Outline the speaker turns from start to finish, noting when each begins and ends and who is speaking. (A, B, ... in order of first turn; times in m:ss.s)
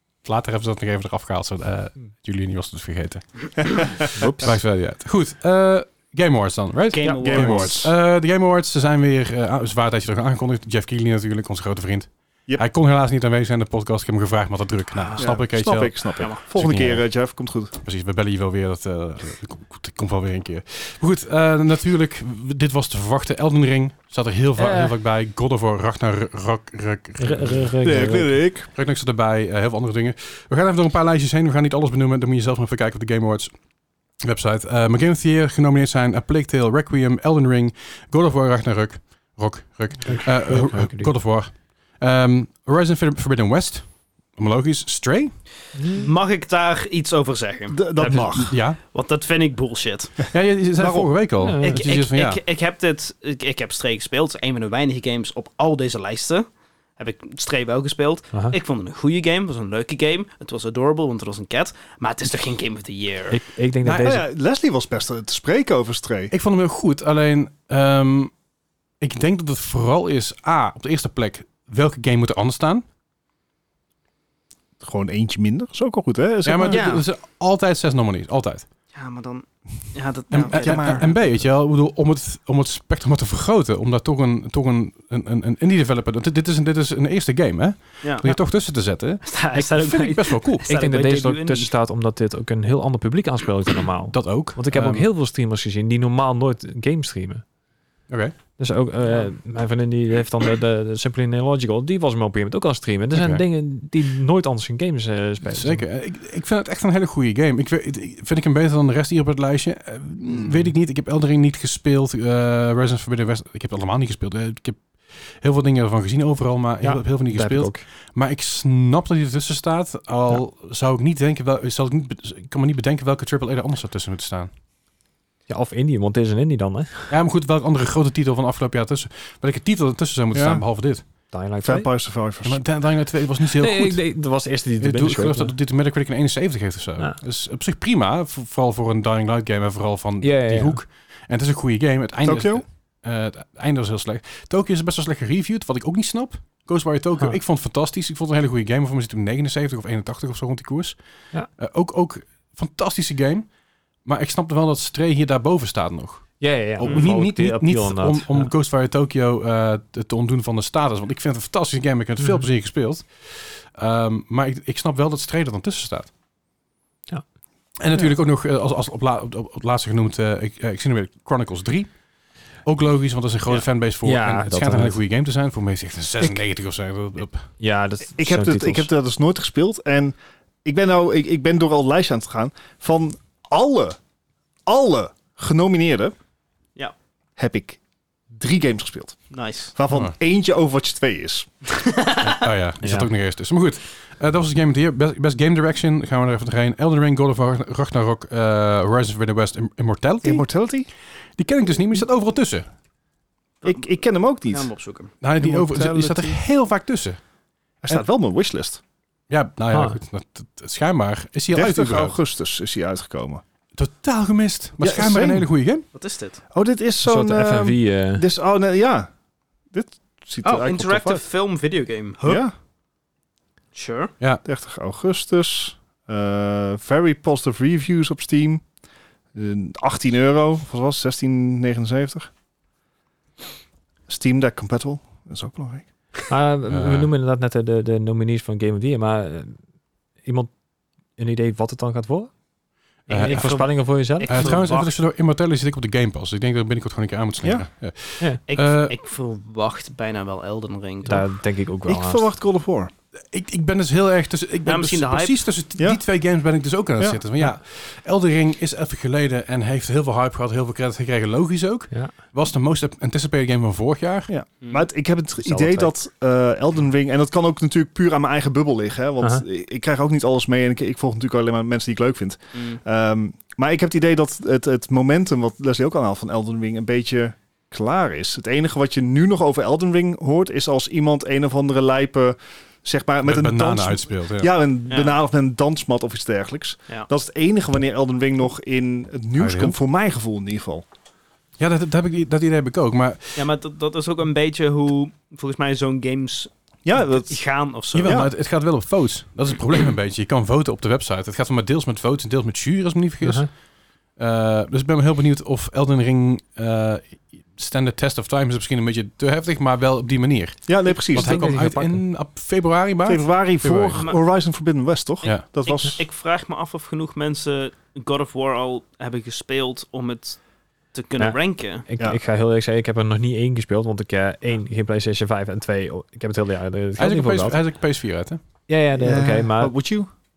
0:00.2-0:17.1 A
0:04.2-0:04.6 B
0:06.9-0:07.7 C
0:07.2-0:07.9 D
0:14.9-0:15.3 C
0:15.2-0:17.7 D
0:16.2-0:16.4 C
0:17.7-0:27.8 A
0:24.6-0:24.9 B
0:27.2-0:28.3 B
0:27.8-0:28.7 D
0:28.7-0:33.5 A
0:34.2-0:45.4 A
0:40.1-0:41.1 B
0:45.8-0:46.1 B
0:45.9-0:47.8 C
0:47.7-0:48.6 D
0:48.0-0:48.4 B
0:48.3-0:48.8 A
0:48.8-0:50.2 C
0:50.3-0:52.4 A
0:50.8-0:51.2 D
0:51.4-0:51.8 B
0:51.6-1:03.4 C
1:03.3-1:04.2 B
1:03.8-1:06.3 D
1:06.3-1:08.3 A
1:09.0-1:12.8 A
1:14.8-1:16.9 D
1:16.4-1:18.7 A
1:16.7-1:17.0 C
1:18.9-1:21.1 C
1:20.3-1:30.7 A
1:20.4-1:21.3 D
1:28.0-1:28.3 C
1:29.2-1:31.7 C
1:30.6-1:37.4 B
1:34.1-1:35.1 A
1:38.1-1:38.4 A
1:38.6-1:45.8 B
1:43.1-1:43.4 A
1:45.4-2:04.5 A
1:56.8-1:57.8 B
2:05.5-2:07.1 B
2:07.1-2:11.0 A
2:10.3-2:10.6 D
2:11.3-2:11.9 B
2:11.6-2:12.6 D
2:12.4-2:14.1 A
2:13.6-2:15.5 B
2:14.8-2:33.5 A
2:20.2-2:20.8 B
2:22.2-2:22.6 D
2:34.0-2:46.1 A
2:36.4-2:38.5 B
2:47.8-2:51.9 A
2:52.6-2:57.5 A
2:54.0-2:55.0 B
2:57.6-2:58.9 B
2:58.1-3:04.0 D
3:04.6-3:06.1 D
3:07.4-3:07.8 D
3:08.3-3:11.5 D
3:09.3-3:09.7 C
3:11.7-3:12.3 C
3:12.2-3:20.5 A
3:12.8-3:13.1 B
3:20.2-3:20.9 D
3:21.4-3:22.7 A
3:23.6-3:25.1 C
3:23.6-3:24.7 D
3:25.2-3:27.2 A
3:25.4-3:26.4 D
3:27.8-3:28.8 D
3:29.3-3:32.2 A
3:29.7-3:30.0 B
3:31.5-3:33.4 D
3:33.8-3:35.8 A
3:34.8-3:35.5 D
3:35.9-3:36.4 C
3:36.5-3:39.1 D
3:37.0-3:38.2 B
3:39.7-3:41.2 D
3:40.4-3:42.4 C
3:42.2-3:42.5 D
3:43.7-3:44.1 C
3:44.4-3:48.6 D
3:49.3-3:52.3 D
3:54.1-3:55.9 D
3:56.3-3:59.6 B
3:56.7-3:57.1 A
4:00.2-4:00.5 B
4:01.2-4:02.3 B
4:03.1-4:09.0 A
4:03.1-4:04.6 B
4:03.1-4:04.9 C
4:07.4-4:07.7 D
4:08.5-4:11.3 C
4:11.0-4:12.2 B
4:11.8-4:12.9 D
4:13.3-4:24.3 A
4:14.6-4:15.4 C
4:17.0-4:17.4 D
4:24.3-4:50.8 D
4:25.4-4:25.9 B
4:32.5-4:32.8 C
4:43.2-4:44.5 A
4:44.9-4:45.2 C
4:49.4-4:49.8 A
4:51.6-4:53.5 A
4:53.4-4:58.2 C
4:56.8-4:57.4 D
4:57.9-5:03.5 A
4:58.0-4:58.3 D
5:03.2-5:03.5 B
5:04.2-5:14.0 A
5:10.7-5:11.5 D
5:11.1-5:12.0 B
5:13.0-5:16.0 D
5:15.2-5:20.4 C
5:20.9-5:21.8 C
5:21.2-5:27.6 B
5:27.0-5:28.4 A
5:28.7-5:29.7 B
5:29.0-5:30.1 D